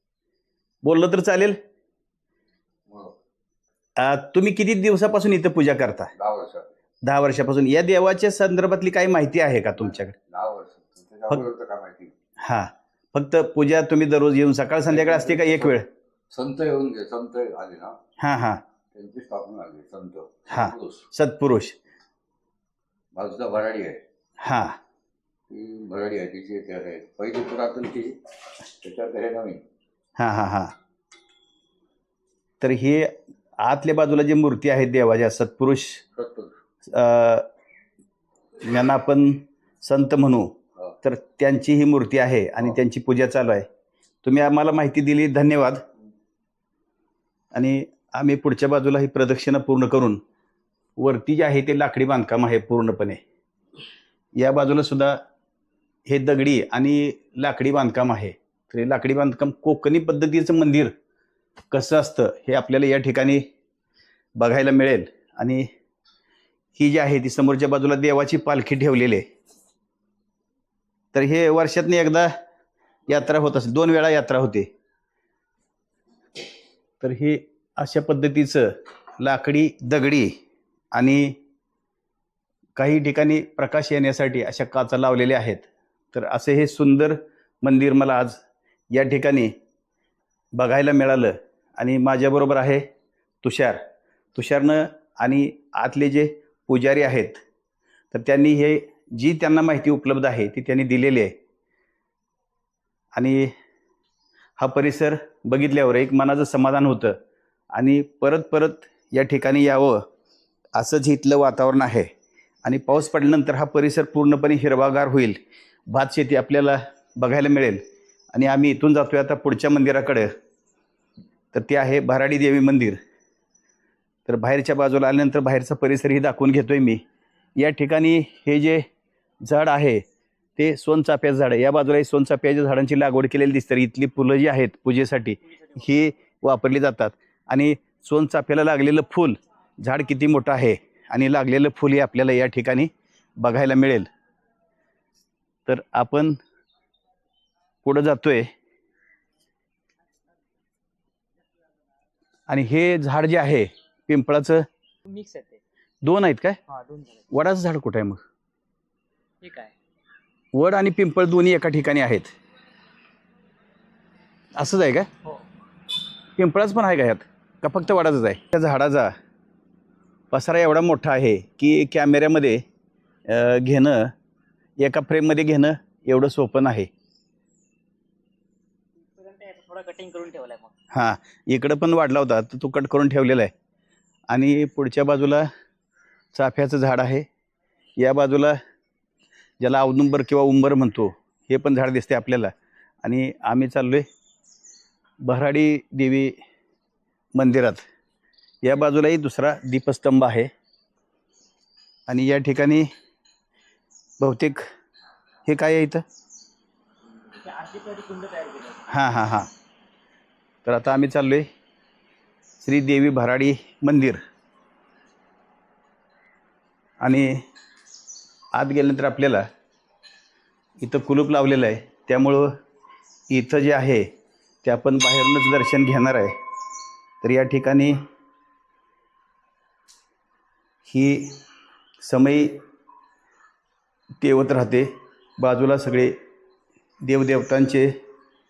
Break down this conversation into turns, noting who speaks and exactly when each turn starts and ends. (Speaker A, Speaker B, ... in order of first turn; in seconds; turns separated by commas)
Speaker A: 0.8-1.6, Speaker B: 2.9-3.1, Speaker A: 4.0-6.1, Speaker B: 6.2-6.7, Speaker A: 7.0-10.2, Speaker B: 10.2-12.1, Speaker A: 12.4-15.9, Speaker B: 14.9-18.0, Speaker A: 18.2-18.6, Speaker B: 18.9-21.1, Speaker A: 20.5-21.8, Speaker B: 23.1-24.0, Speaker A: 24.4-24.8, Speaker B: 25.5-28.2, Speaker B: 28.7-29.6, Speaker A: 30.2-30.7, Speaker A: 32.6-36.0, Speaker B: 36.2-36.5, Speaker A: 36.9-37.5, Speaker A: 38.6-43.7, Speaker A: 44.2-45.8, Speaker A: 47.5-50.2, Speaker A: 51.0-53.2, Speaker A: 54.4-55.2, Speaker A: 56.1-60.9, Speaker A: 61.7-63.5, Speaker A: 64.4-65.7, Speaker A: 66.8-69.2, Speaker A: 71.1-72.3, Speaker A: 73.1-74.7, Speaker A: 77.0-80.3, Speaker A: 80.9-81.4, Speaker A: 82.8-88.4, Speaker A: 88.9-89.5, Speaker A: 90.6-92.8, Speaker A: 93.4-93.8, Speaker A: 94.3-97.4, Speaker A: 98.1-101.3, Speaker A: 103.2-103.5, Speaker A: 104.6-107.2, Speaker A: 107.7-110.0, Speaker A: 110.8-112.1, Speaker A: 112.7-115.4, Speaker A: 115.9-117.8, Speaker A: 118.3-120.3, Speaker A: 121.5-123.0, Speaker A: 124.3-127.0, Speaker A: 127.6-128.8, Speaker A: 129.4-130.0, Speaker A: 130.6-144.1, Speaker A: 145.7-146.4, Speaker A: 147.8-148.5, Speaker A: 152.5-154.7, Speaker C: 155.1-155.6, Speaker A: 156.0-156.6, Speaker C: 156.7-157.3, Speaker A: 157.3-158.2, Speaker C: 159.4-159.7, Speaker A: 160.5-162.3, Speaker A: 164.6-165.1, Speaker A: 166.4-169.1, Speaker A: 170.3-172.6, Speaker A: 173.3-174.1, Speaker A: 174.8-176.9, Speaker C: 179.0-180.7, Speaker A: 180.9-183.5, Speaker A: 184.3-185.5, Speaker A: 186.3-187.3, Speaker A: 188.0-188.6, Speaker A: 189.6-192.5, Speaker A: 193.0-194.1, Speaker A: 195.2-196.4, Speaker A: 197.3-197.8, Speaker A: 198.6-200.5, Speaker A: 202.1-202.9, Speaker A: 204.2-204.6, Speaker A: 205.5-206.0, Speaker C: 207.3-208.8, Speaker A: 208.9-209.5, Speaker A: 210.7-211.5, Speaker A: 212.6-214.2, Speaker A: 217.0-217.4, Speaker A: 218.6-219.5, Speaker A: 220.8-222.6, Speaker A: 223.3-224.1, Speaker A: 224.6-226.4, Speaker A: 227.2-228.0, Speaker A: 230.9-231.4, Speaker A: 232.0-232.6, Speaker A: 234.2-236.2, Speaker A: 237.1-237.9